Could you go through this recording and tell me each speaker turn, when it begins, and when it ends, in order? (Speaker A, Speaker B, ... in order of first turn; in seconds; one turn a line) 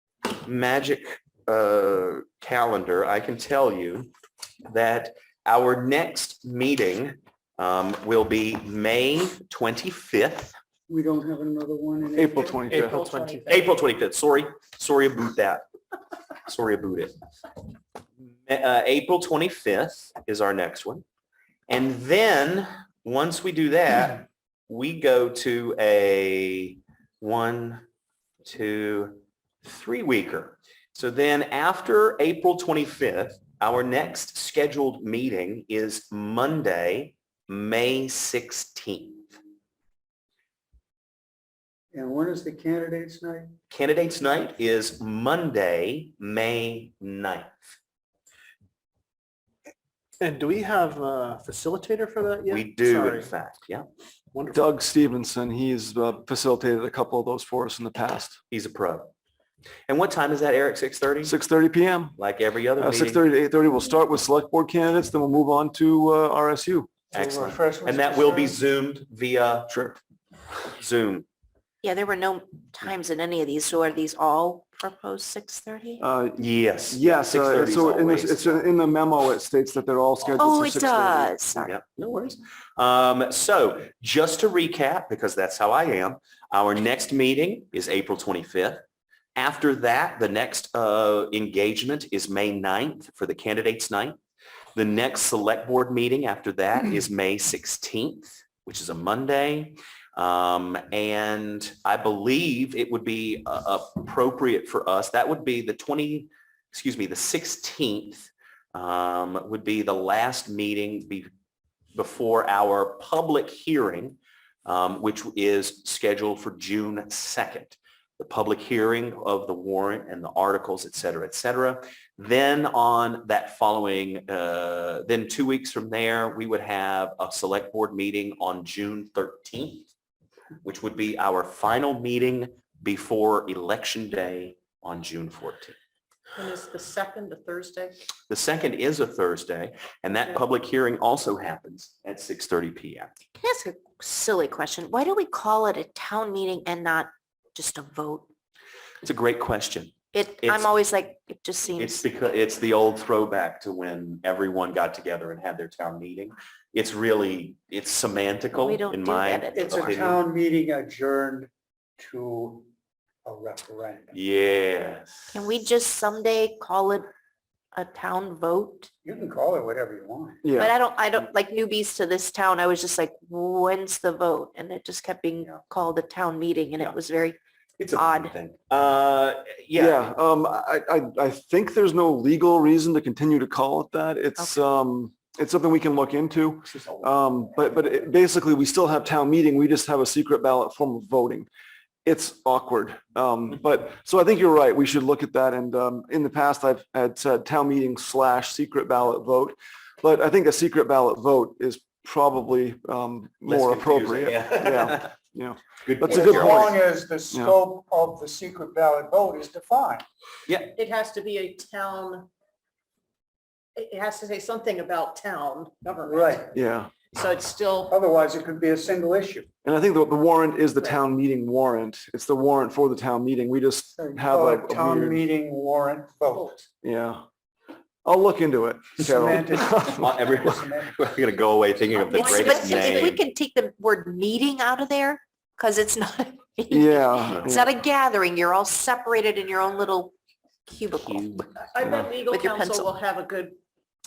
Speaker A: 0.3-4.1
Speaker A: 4.7-10.6
Speaker B: 10.9-12.6
Speaker C: 12.2-13.0
Speaker D: 12.6-13.7
Speaker E: 12.7-13.6
Speaker A: 13.5-15.6
Speaker A: 16.4-17.1
Speaker A: 18.3-21.0
Speaker A: 21.7-27.8
Speaker A: 28.4-39.4
Speaker B: 41.9-43.5
Speaker A: 43.7-47.7
Speaker E: 50.2-53.3
Speaker A: 52.5-53.9
Speaker E: 54.3-54.7
Speaker C: 54.5-58.4
Speaker A: 58.5-59.1
Speaker A: 59.9-61.3
Speaker C: 61.2-62.2
Speaker A: 62.2-63.2
Speaker C: 62.8-66.9
Speaker A: 67.1-69.7
Speaker B: 67.1-68.6
Speaker C: 69.7-70.0
Speaker A: 70.7-71.2
Speaker F: 71.8-76.0
Speaker C: 76.0-81.3
Speaker A: 76.4-78.6
Speaker F: 80.4-81.7
Speaker A: 81.6-88.8
Speaker A: 89.3-94.2
Speaker A: 94.7-111.3
Speaker A: 111.9-129.9
Speaker A: 130.6-135.8
Speaker D: 136.3-138.0
Speaker A: 138.3-143.1
Speaker F: 143.4-148.3
Speaker A: 149.0-150.7
Speaker F: 150.1-152.0
Speaker A: 151.8-160.2
Speaker F: 158.5-160.0
Speaker B: 159.5-162.7
Speaker B: 163.2-164.1
Speaker A: 164.1-165.3
Speaker F: 165.3-167.1
Speaker F: 167.7-168.9
Speaker B: 169.0-170.4
Speaker C: 170.4-170.7
Speaker F: 170.5-177.4
Speaker A: 177.8-180.1
Speaker F: 177.9-178.3
Speaker C: 179.7-191.5
Speaker A: 186.7-187.1
Speaker C: 192.0-206.8
Speaker A: 203.4-205.1
Speaker A: 205.8-206.8
Speaker B: 206.0-210.0
Speaker A: 210.5-210.7
Speaker D: 210.8-212.3
Speaker D: 213.8-216.5
Speaker B: 216.0-216.5
Speaker C: 216.5-216.9
Speaker D: 217.1-217.9
Speaker B: 217.9-219.5
Speaker C: 219.6-225.2
Speaker B: 224.0-226.6
Speaker C: 226.8-227.2
Speaker C: 228.0-230.3
Speaker B: 229.0-231.0
Speaker A: 229.8-233.2
Speaker D: 232.0-233.2
Speaker F: 232.1-240.1
Speaker C: 236.7-237.7
Speaker A: 237.2-237.5
Speaker F: 240.7-241.4
Speaker A: 241.0-241.5
Speaker D: 241.6-243.6
Speaker C: 241.8-242.1
Speaker F: 242.3-242.9